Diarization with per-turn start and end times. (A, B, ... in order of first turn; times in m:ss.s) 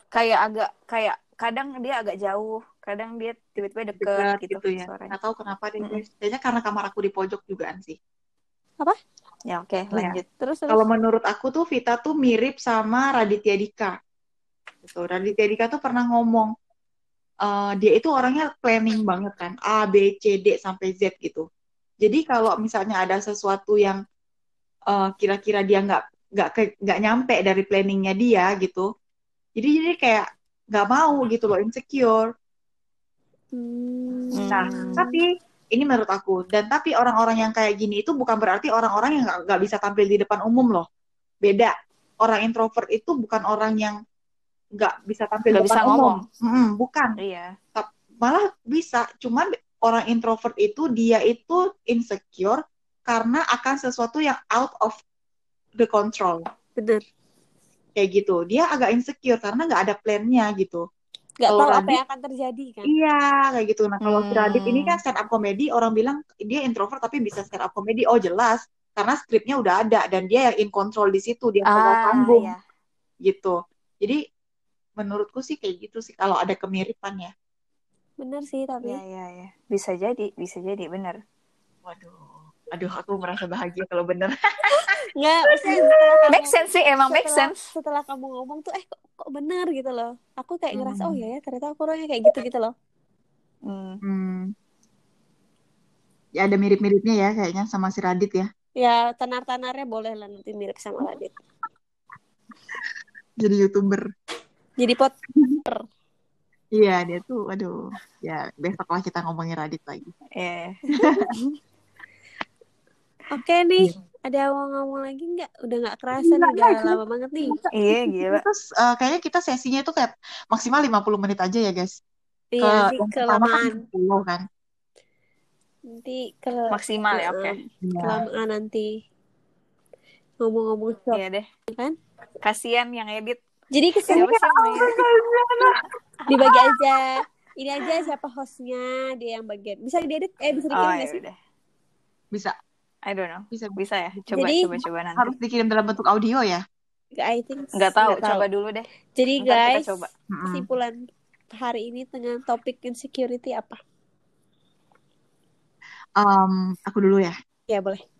0:00.1-0:05.1 A
0:04.0-0:08.0 B
0:09.5-0:10.2 A
0:09.9-0:13.9 B
0:10.0-0:10.8 C
0:14.8-0:16.5 B
0:17.4-0:21.4 B
0:22.0-0:24.0 B
0:24.9-0:28.9 B
0:29.6-0:32.3 B
0:33.5-0:35.1 C
0:34.3-0:35.0 A
0:34.5-0:40.8 B
0:41.4-0:44.0 B
0:44.8-0:47.2 B
0:45.5-0:46.2 A
0:47.2-0:47.5 A
0:47.7-0:55.0 B
0:55.8-0:56.4 B
0:56.8-0:57.0 C
0:58.0-1:00.8 B
1:01.4-1:02.9 C
1:01.5-1:02.0 B
1:02.8-1:12.5 B
1:04.0-1:05.0 A
1:11.6-1:12.6 A
1:13.2-1:14.2 B
1:15.0-1:17.3 B
1:18.2-1:19.0 C
1:18.8-1:21.2 A
1:21.8-1:24.9 B
1:25.2-1:32.7 C
1:25.5-1:26.3 B
1:26.3-1:27.6 A
1:30.7-1:31.2 B
1:33.6-1:34.0 A
1:34.0-1:34.5 B
1:36.4-1:38.5 B
1:38.8-1:41.3 C
1:43.4-1:44.1 B
1:44.8-1:45.1 C
1:46.8-1:50.1 B
1:50.4-1:50.8 A
1:51.0-1:51.3 B
1:53.3-1:57.6 C
1:56.2-2:02.0 B
1:57.7-1:58.4 A
2:02.5-2:03.8 C
2:02.6-2:04.4 B
2:05.9-2:09.0 C
2:06.7-2:07.6 A
2:07.8-2:08.2 B
2:10.4-2:11.9 C
2:11.1-2:11.5 A
2:12.4-2:13.4 A
2:13.7-2:14.3 C
2:14.1-2:15.0 A
2:14.1-2:15.8 B
2:16.3-2:21.2 C
2:20.7-2:21.3 A
2:23.1-2:25.3 A
2:23.5-2:23.8 B
2:24.3-2:24.8 C
2:25.2-2:26.6 B
2:27.2-2:28.4 C
2:27.7-2:28.9 A
2:29.1-2:30.0 C
2:29.4-2:30.1 A
2:30.3-2:30.7 B
2:30.5-2:31.0 C
2:31.5-2:33.8 C
2:36.2-2:37.3 B
2:37.7-2:38.0 C